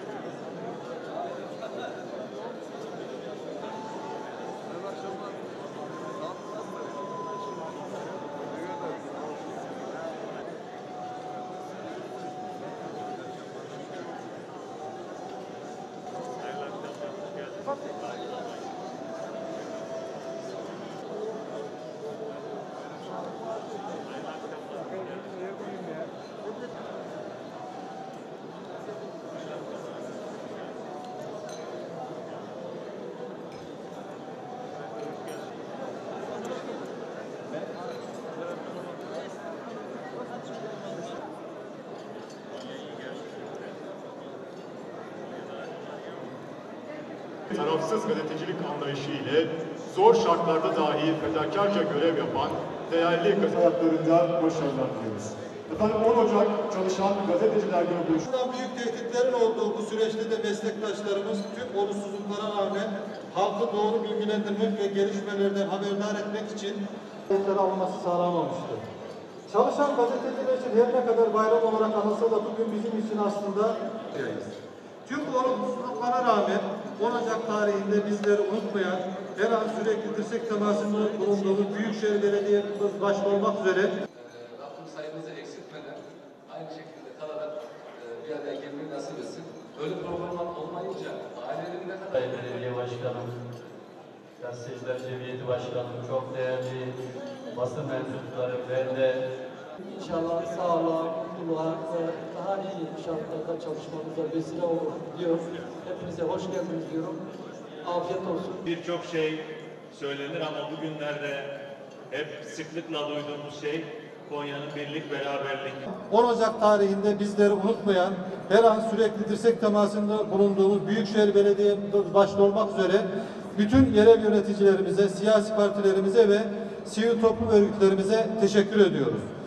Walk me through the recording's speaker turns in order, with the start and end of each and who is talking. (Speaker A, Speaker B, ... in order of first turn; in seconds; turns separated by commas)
Speaker A: 47.5-58.2, Speaker B: 58.2-68.8, Speaker B: 69.5-74.5, Speaker B: 75.0-83.9, Speaker C: 84.1-92.8, Speaker D: 94.5-96.9, Speaker D: 97.6-99.2, Speaker E: 99.8-107.2, Speaker E: 107.8-108.6, Speaker F: 108.7-111.5, Speaker F: 112.1-115.8, Speaker B: 116.1-129.2